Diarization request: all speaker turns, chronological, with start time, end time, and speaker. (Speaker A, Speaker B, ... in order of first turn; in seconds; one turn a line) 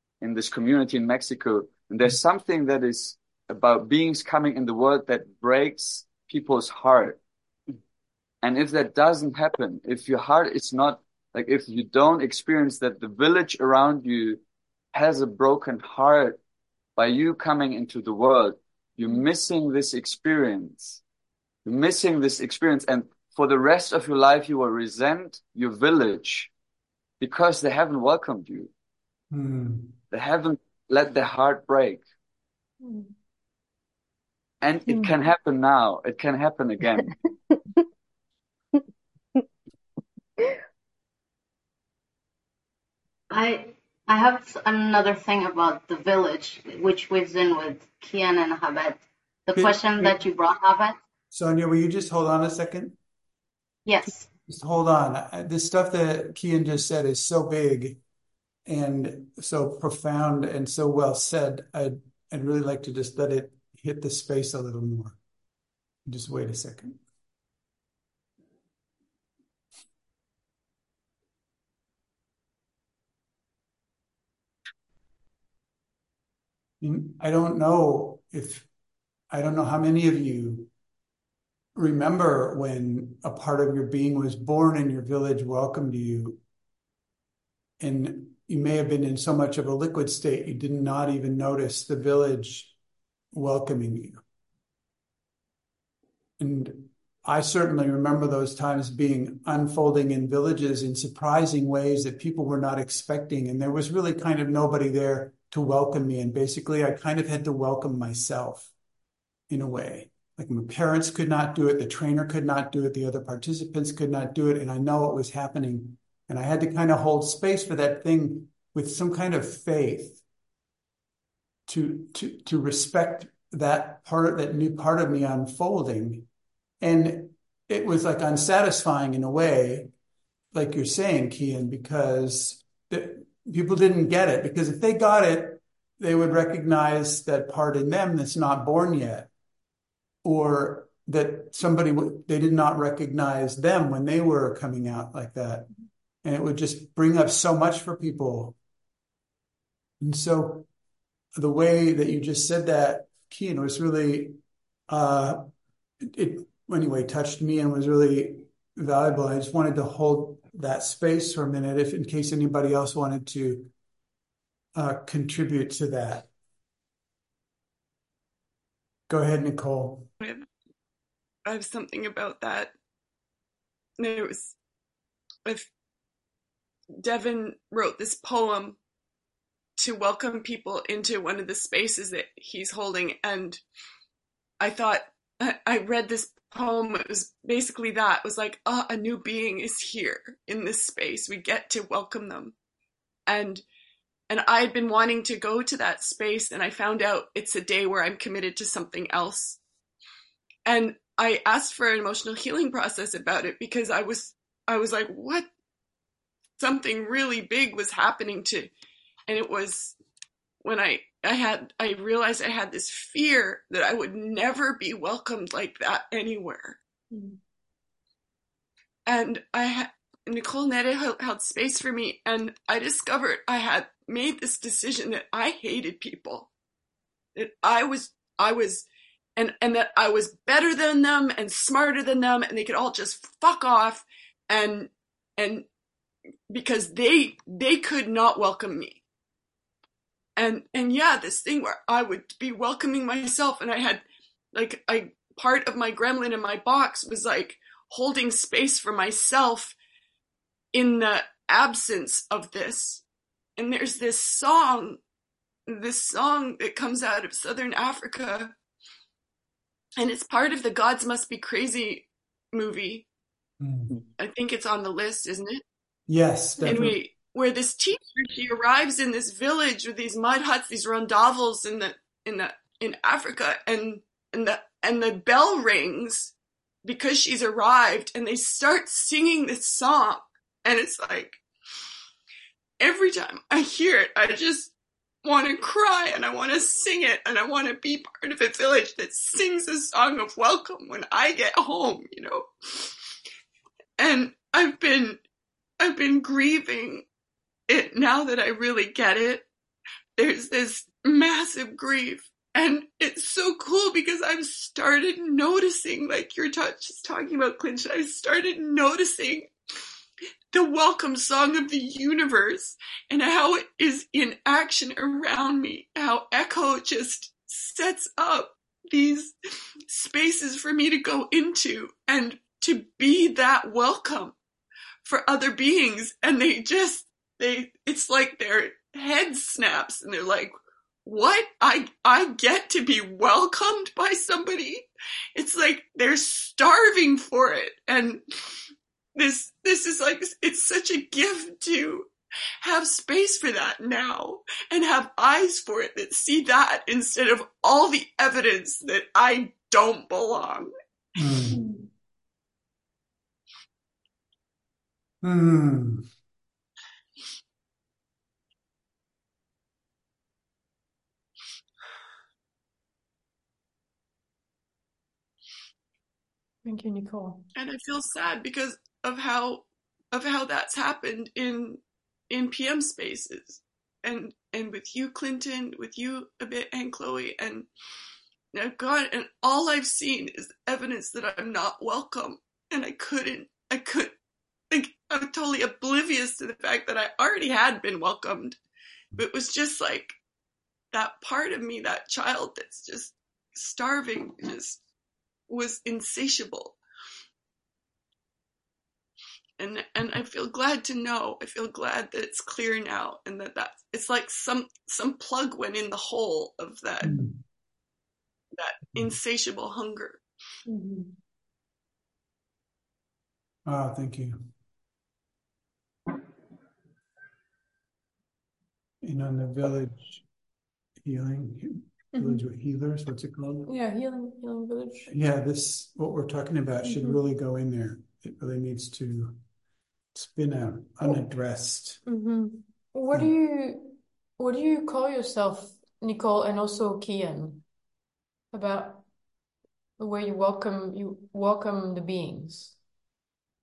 Speaker A: 0.2-7.2
Speaker A: 8.4-14.4
Speaker A: 14.9-16.4
Speaker A: 17.0-21.0
Speaker A: 21.6-26.5
Speaker A: 27.2-28.7
Speaker B: 29.3-30.0
Speaker A: 30.1-32.0
Speaker C: 32.8-33.1
Speaker A: 34.6-37.1
Speaker D: 43.3-51.0
Speaker B: 49.5-50.2
Speaker B: 51.3-53.0
Speaker D: 53.9-54.3
Speaker B: 54.5-58.0
Speaker B: 58.7-65.2
Speaker B: 66.1-67.0
Speaker B: 76.8-78.7
Speaker B: 79.3-80.7
Speaker B: 81.8-86.4
Speaker B: 87.8-92.7
Speaker B: 93.3-94.2
Speaker B: 96.4-108.7
Speaker B: 109.5-120.2
Speaker B: 121.7-126.3
Speaker B: 126.8-129.9
Speaker B: 130.5-139.3
Speaker B: 140.2-145.7
Speaker B: 146.2-148.6
Speaker B: 150.0-150.7
Speaker B: 151.3-154.4
Speaker B: 154.9-155.5
Speaker B: 156.0-163.7
Speaker B: 164.8-166.3
Speaker B: 169.1-170.1
Speaker E: 170.2-170.5
Speaker E: 171.4-172.7
Speaker E: 174.0-174.6
Speaker E: 177.0-178.8
Speaker E: 179.8-183.6
Speaker E: 184.6-192.5
Speaker E: 193.3-193.6
Speaker E: 194.3-199.6
Speaker E: 200.7-205.5
Speaker E: 206.6-208.7
Speaker E: 209.3-209.9
Speaker E: 210.6-216.8
Speaker C: 217.1-217.4
Speaker E: 219.1-226.5
Speaker E: 227.3-235.7
Speaker E: 236.5-239.0
Speaker E: 240.4-249.8
Speaker E: 250.7-253.0
Speaker E: 253.6-255.0
Speaker E: 255.7-258.5
Speaker E: 260.0-263.1
Speaker B: 263.6-264.0
Speaker E: 264.2-265.6
Speaker B: 266.1-267.0
Speaker E: 266.6-276.3
Speaker E: 276.8-281.4
Speaker E: 282.8-284.7
Speaker E: 285.2-292.9
Speaker E: 294.0-295.2
Speaker E: 295.8-297.1
Speaker E: 297.7-299.5
Speaker E: 300.2-309.5
Speaker E: 310.5-319.3
Speaker E: 319.9-324.4
Speaker E: 325.0-338.2
Speaker E: 339.1-350.7
Speaker B: 351.2-351.6
Speaker C: 351.5-351.9
Speaker B: 355.2-356.1
Speaker C: 366.6-367.4
Speaker E: 367.6-377.7
Speaker E: 378.5-384.1
Speaker E: 384.7-388.6
Speaker E: 389.2-390.2
Speaker E: 390.9-394.8
Speaker E: 395.5-396.8
Speaker E: 399.6-407.2
Speaker B: 407.0-407.4
Speaker E: 408.6-410.2
Speaker C: 410.7-411.1
Speaker B: 413.7-414.4
Speaker B: 419.0-420.2
Speaker B: 421.0-423.7
Speaker C: 422.1-422.4
Speaker C: 423.7-425.1
Speaker B: 425.1-429.4
Speaker C: 426.8-427.2
Speaker B: 430.1-432.0
Speaker C: 432.1-437.6
Speaker C: 438.5-439.0
Speaker C: 440.0-442.8